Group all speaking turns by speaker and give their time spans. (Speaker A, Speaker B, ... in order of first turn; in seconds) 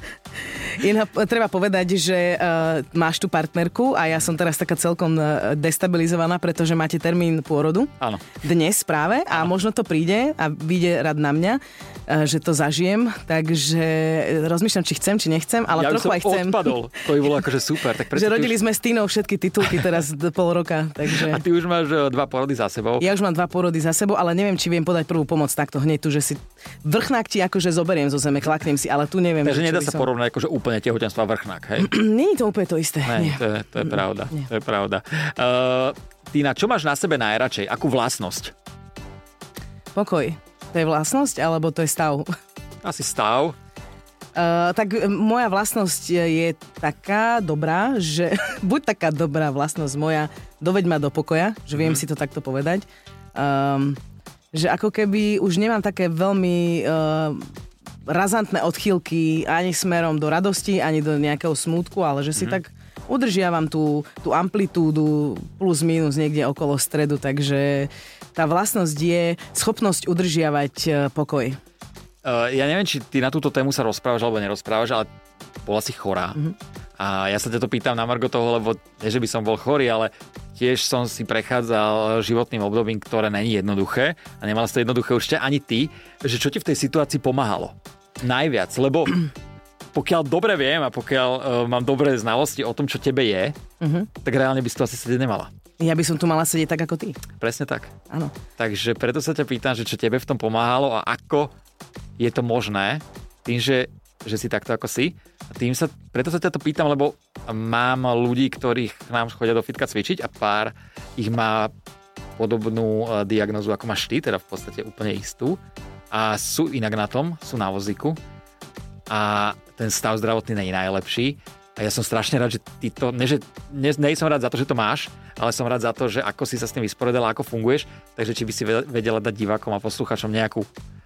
Speaker A: 0.6-16.8, 18.1-21.4, 23.0-30.1, 31.8-34.4, 39.9-42.3, 44.4-54.0, 54.5-57.5, 58.1-71.6, 93.8-94.1, 95.8-97.2
Speaker B: 8.0-8.3, 15.7-18.6, 21.1-23.1, 29.4-31.9, 33.1-38.5, 42.8-43.6, 72.2-75.1, 75.6-76.4, 77.0-89.2, 89.9-93.6, 94.2-95.5, 97.4-97.9, 98.6-101.5, 102.2-111.7, 112.4-115.6, 116.1-118.2, 119.1-130.7